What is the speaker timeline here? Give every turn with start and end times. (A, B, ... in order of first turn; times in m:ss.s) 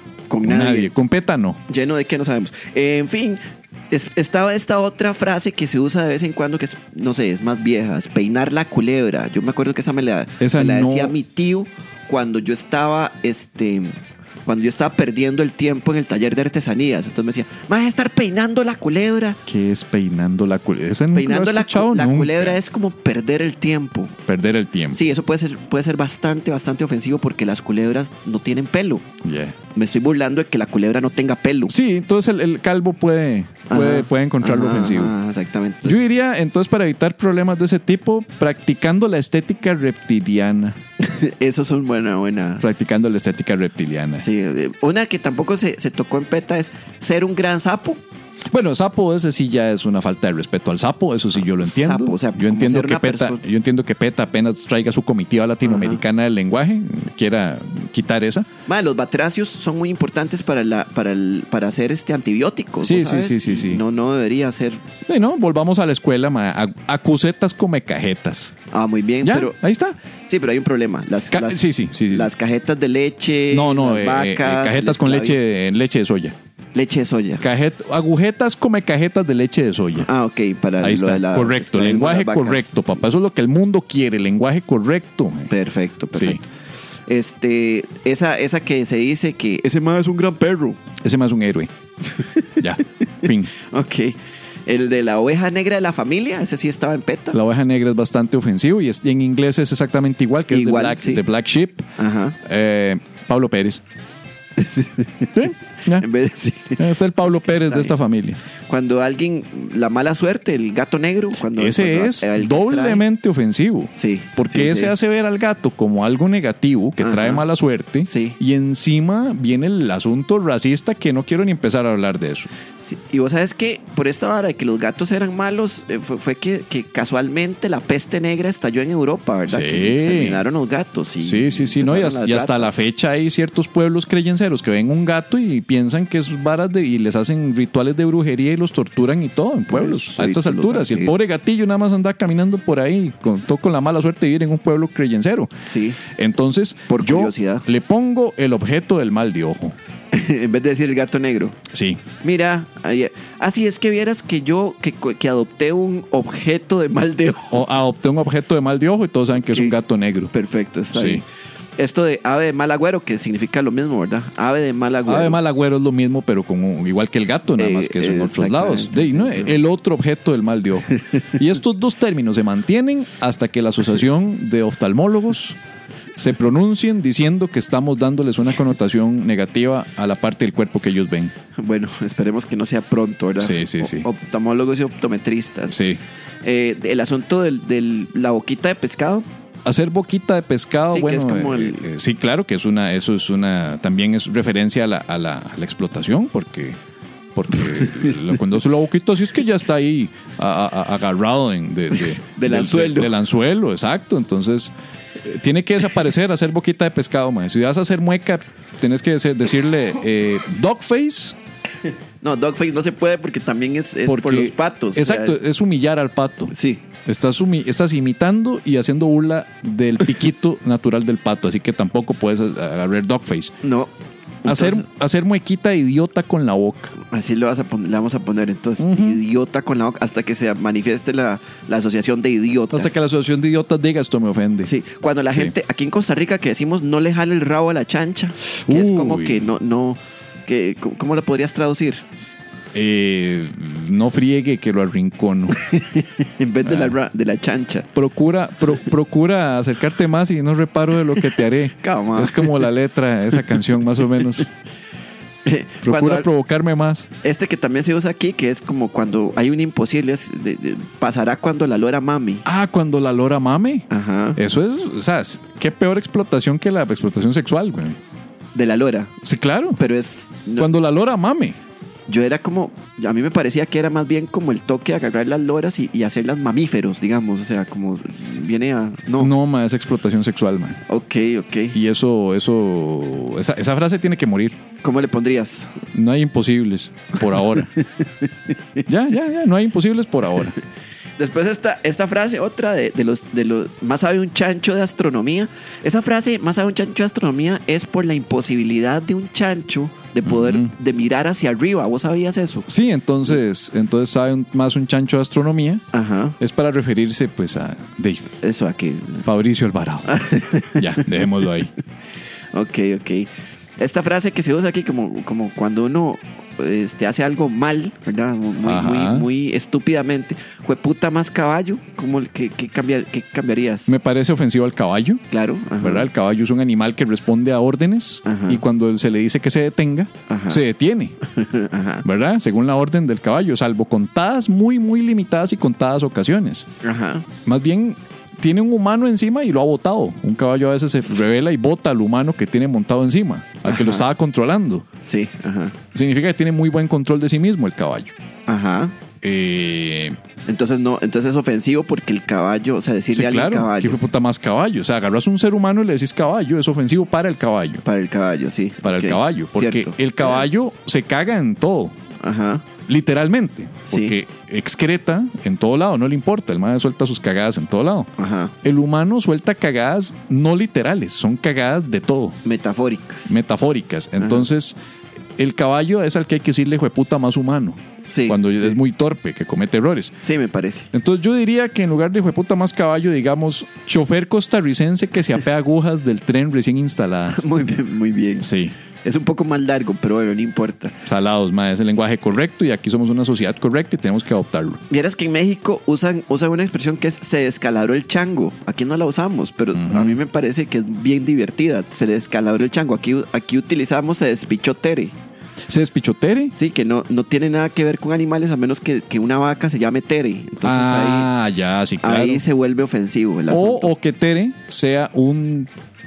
0:00.3-0:00.9 A
0:00.4-0:01.6 B
0:01.7-0:19.4 A
0:10.4-0:11.1 B
0:19.4-0:22.6 B
0:21.1-0:24.2 A
0:24.3-0:25.0 B
0:24.9-0:29.0 A
0:29.2-0:29.5 B
0:29.7-0:31.7 A
0:31.7-0:35.1 B
0:33.7-0:36.0 A
0:35.8-0:40.8 B
0:41.0-0:42.6 A
0:42.6-0:44.3 B
0:44.2-0:48.0 A
0:48.5-0:58.5 B
0:51.4-0:53.4 A
0:55.6-0:56.0 A
0:58.7-1:04.8 A
1:02.8-1:03.8 B
1:05.1-1:08.5 B
1:08.7-1:09.6 A
1:09.2-1:10.0 B
1:10.3-1:15.4 A
1:11.3-1:12.3 B
1:13.5-1:16.3 B
1:16.7-1:17.4 A
1:17.4-1:20.1 B
1:20.0-1:22.8 A
1:20.8-1:25.5 B
1:25.5-1:26.4 A
1:26.1-1:26.4 B
1:27.1-1:30.8 A
1:31.0-1:31.7 B
1:32.1-1:32.6 A
1:32.6-1:33.5 B
1:33.2-1:37.4 A
1:37.3-1:41.9 B
1:40.5-1:41.2 A
1:42.0-1:42.4 A
1:42.4-1:43.8 B
1:44.6-1:45.4 A
1:45.3-1:46.1 B
1:45.9-1:46.8 A
1:46.8-1:48.4 B
1:47.6-1:47.9 A
1:48.7-1:53.0 A
1:51.5-2:02.5 B
1:54.0-1:54.9 A
1:57.0-1:57.4 A
1:58.0-1:58.4 A
2:02.8-2:12.7 A
2:09.5-2:10.4 B
2:11.2-2:25.5 B
2:19.7-2:21.1 A
2:25.6-2:26.0 A
2:26.1-2:29.8 B
2:26.9-2:27.6 A
2:30.1-2:31.6 A
2:31.7-2:32.0 B
2:32.2-2:37.6 A
2:37.5-2:40.3 B
2:39.5-2:39.8 A
2:40.3-2:41.2 A
2:40.9-2:41.2 B
2:41.8-2:45.4 A
2:45.1-2:55.6 B
2:47.6-2:49.6 A
2:56.2-3:01.3 B
3:01.6-3:05.8 A
3:03.4-3:04.1 B
3:05.7-3:06.0 B
3:06.4-3:09.2 A
3:09.6-3:16.8 B
3:10.9-3:11.9 A
3:17.3-3:31.4 B
3:17.7-3:18.2 A
3:22.0-3:23.2 A
3:32.2-3:35.4 A
3:34.0-3:36.5 B
3:36.5-3:36.8 A
3:37.0-3:43.5 B
3:43.6-3:43.9 A
3:44.4-3:44.8 A
3:44.4-3:47.0 B
3:47.0-3:53.0 A
3:48.8-3:49.2 B
3:52.7-3:54.7 B
3:54.6-4:02.0 A
3:58.4-3:59.5 B
4:02.7-4:05.6 B
4:05.5-4:07.9 A
4:06.6-4:06.9 B
4:07.9-4:14.5 B
4:11.8-4:12.7 A
4:13.3-4:14.4 A
4:15.4-4:16.3 A
4:15.8-4:17.1 B
4:17.2-4:22.4 A
4:22.4-4:28.0 B
4:23.9-4:24.4 A
4:28.5-4:29.2 A
4:29.2-4:29.8 B
4:29.8-4:30.7 A
4:30.6-4:31.6 B
4:32.1-4:39.3 A
4:39.2-4:40.8 B
4:40.9-4:41.8 A
4:41.7-4:44.6 B
4:44.8-4:45.7 A
4:45.9-4:47.7 B
4:47.4-4:48.8 A
4:48.8-4:50.6 B
4:51.2-5:02.7 A
5:00.2-5:00.7 B
5:02.7-5:05.8 B
5:05.9-5:06.4 A
5:06.4-5:08.3 B
5:08.4-5:09.2 A
5:09.2-5:10.2 B
5:10.1-5:11.1 A
5:10.7-5:11.7 B
5:12.5-5:23.9 A
5:18.6-5:19.2 B
5:23.9-5:25.2 B
5:25.3-5:26.1 A
5:25.8-5:31.2 B
5:28.2-5:28.6 A
5:30.3-5:30.6 A
5:31.2-5:32.0 A
5:32.0-5:36.7 B
5:36.8-5:37.3 A
5:37.4-5:44.8 B
5:43.6-5:44.0 A
5:45.0-5:45.8 A
5:45.9-5:48.1 B
5:48.5-5:48.9 A
5:49.2-5:50.2 B
5:50.5-5:54.0 A
5:53.1-5:57.8 B
5:57.8-6:00.4 A
5:58.8-6:02.0 B
6:02.2-6:02.7 A
6:02.8-6:08.1 B
6:03.9-6:04.1 A
6:08.2-6:08.5 A
6:08.6-6:12.4 B
6:12.4-6:13.3 A
6:13.3-6:14.8 B
6:14.2-6:14.5 A
6:15.4-6:20.2 B
6:18.1-6:18.8 A
6:20.2-6:20.9 A
6:20.9-6:27.4 B
6:27.3-6:28.5 A
6:28.4-6:28.7 B
6:29.0-6:31.0 A
6:31.0-6:34.8 B
6:34.9-6:45.2 A
6:39.7-6:40.2 B
6:45.7-6:46.5 B
6:46.5-6:51.3 A
6:50.6-6:52.4 B
6:52.0-6:53.9 A
6:53.5-6:55.7 B